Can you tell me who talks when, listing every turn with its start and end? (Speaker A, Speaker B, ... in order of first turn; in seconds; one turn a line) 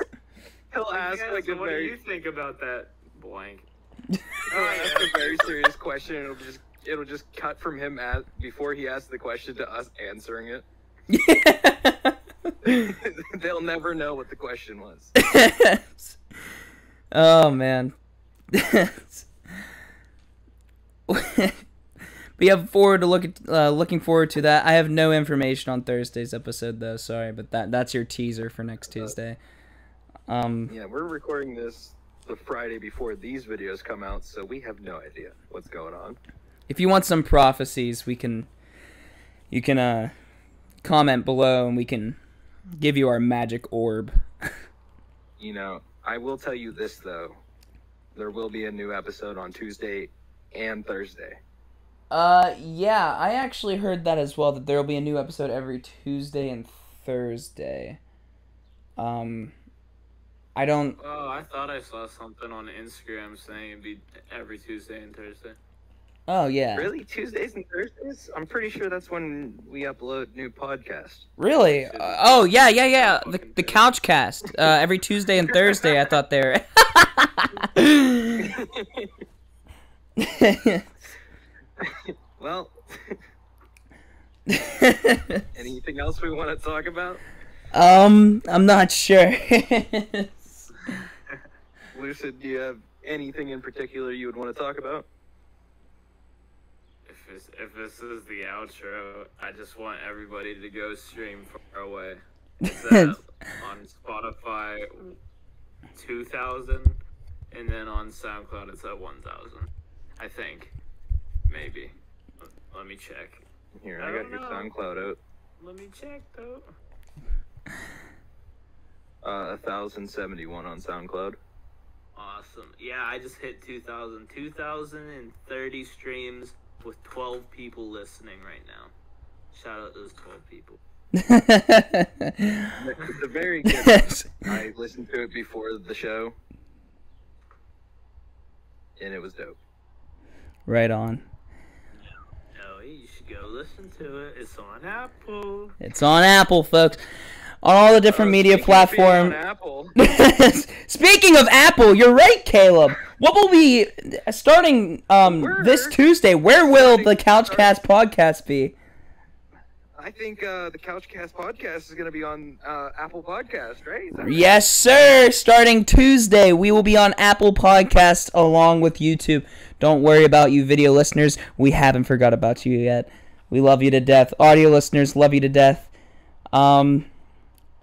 Speaker A: 0.7-1.9
Speaker B: 0.9-3.7
Speaker B: 4.5-5.6
Speaker A: 4.5-10.7
Speaker C: 11.1-12.9
Speaker A: 12.6-15.1
Speaker C: 15.2-16.2
Speaker C: 17.1-17.9
Speaker C: 18.5-19.3
Speaker C: 21.1-21.6
Speaker C: 22.4-29.4
Speaker C: 30.3-30.7
Speaker A: 30.7-36.2
Speaker C: 36.7-38.5
Speaker C: 39.5-40.1
Speaker C: 40.8-42.2
Speaker C: 42.8-44.5
Speaker A: 45.4-47.4
Speaker A: 48.1-51.4
Speaker C: 52.1-58.0
Speaker C: 59.0-59.5
Speaker C: 60.5-61.0
Speaker B: 61.0-65.6
Speaker C: 66.3-66.9
Speaker A: 66.7-71.3
Speaker C: 71.4-78.6
Speaker B: 71.6-73.8
Speaker A: 78.4-79.1
Speaker C: 80.2-80.9
Speaker A: 81.8-83.2
Speaker C: 84.5-85.5
Speaker A: 85.5-87.2
Speaker C: 87.7-90.7
Speaker A: 91.9-95.0
Speaker B: 97.1-105.2
Speaker C: 102.7-103.2
Speaker B: 106.0-107.0
Speaker B: 107.5-110.7
Speaker B: 111.5-113.4
Speaker A: 113.8-115.2
Speaker B: 114.0-114.7
Speaker B: 115.6-116.7
Speaker A: 119.2-121.4
Speaker B: 122.2-128.9
Speaker B: 129.5-130.8
Speaker C: 131.1-132.8
Speaker A: 132.8-136.4
Speaker C: 133.7-134.3
Speaker A: 139.0-139.6
Speaker C: 140.7-141.2
Speaker B: 142.0-145.8
Speaker C: 145.8-147.0
Speaker C: 147.6-149.4
Speaker A: 148.1-150.0
Speaker C: 150.0-158.8
Speaker A: 155.2-156.0
Speaker A: 156.5-157.8
Speaker A: 160.0-164.6
Speaker C: 164.2-175.9
Speaker C: 176.5-177.1